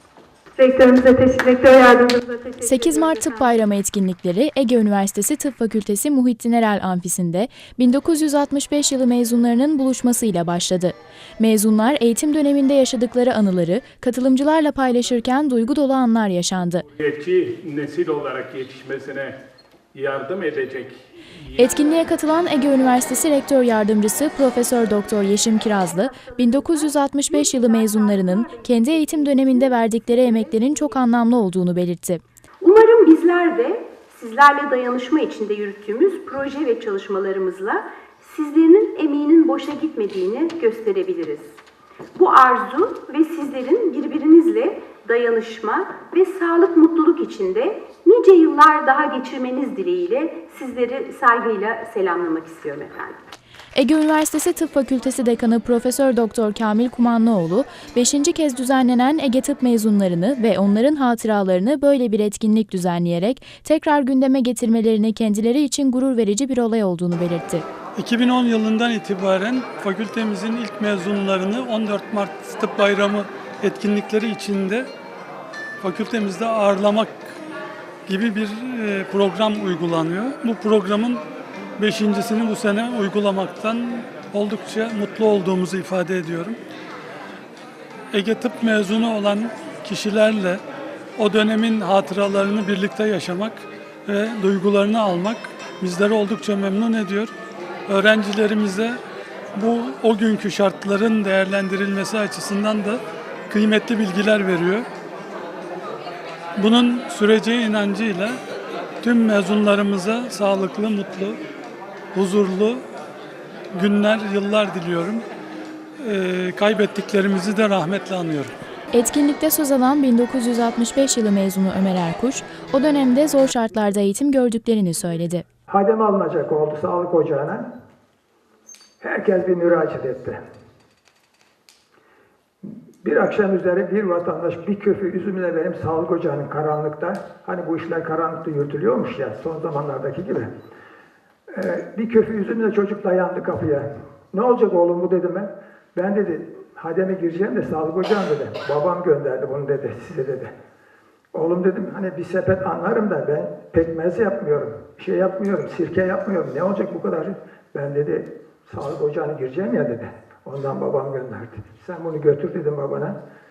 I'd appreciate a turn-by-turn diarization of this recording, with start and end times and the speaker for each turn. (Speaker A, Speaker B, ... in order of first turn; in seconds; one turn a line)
Speaker A: 0.6-3.5
Speaker B: 2.6-16.8
Speaker C: 17.0-19.4
Speaker C: 19.9-21.8
Speaker B: 21.6-32.2
Speaker D: 25.8-30.9
Speaker D: 32.6-41.6
Speaker D: 42.1-53.2
Speaker B: 53.8-67.7
Speaker E: 68.0-74.9
Speaker E: 75.8-77.3
Speaker E: 78.1-81.2
Speaker E: 81.8-86.6
Speaker E: 88.1-90.6
Speaker E: 91.2-97.3
Speaker E: 97.9-99.0
Speaker E: 99.5-104.9
Speaker E: 106.6-108.4
Speaker E: 109.0-111.4
Speaker E: 112.1-112.8
Speaker E: 113.7-115.2
Speaker E: 116.0-118.5
Speaker B: 118.9-125.4
Speaker F: 125.7-127.7
Speaker F: 129.0-130.4
Speaker F: 132.6-140.5
Speaker F: 141.5-150.5
Speaker F: 151.3-163.2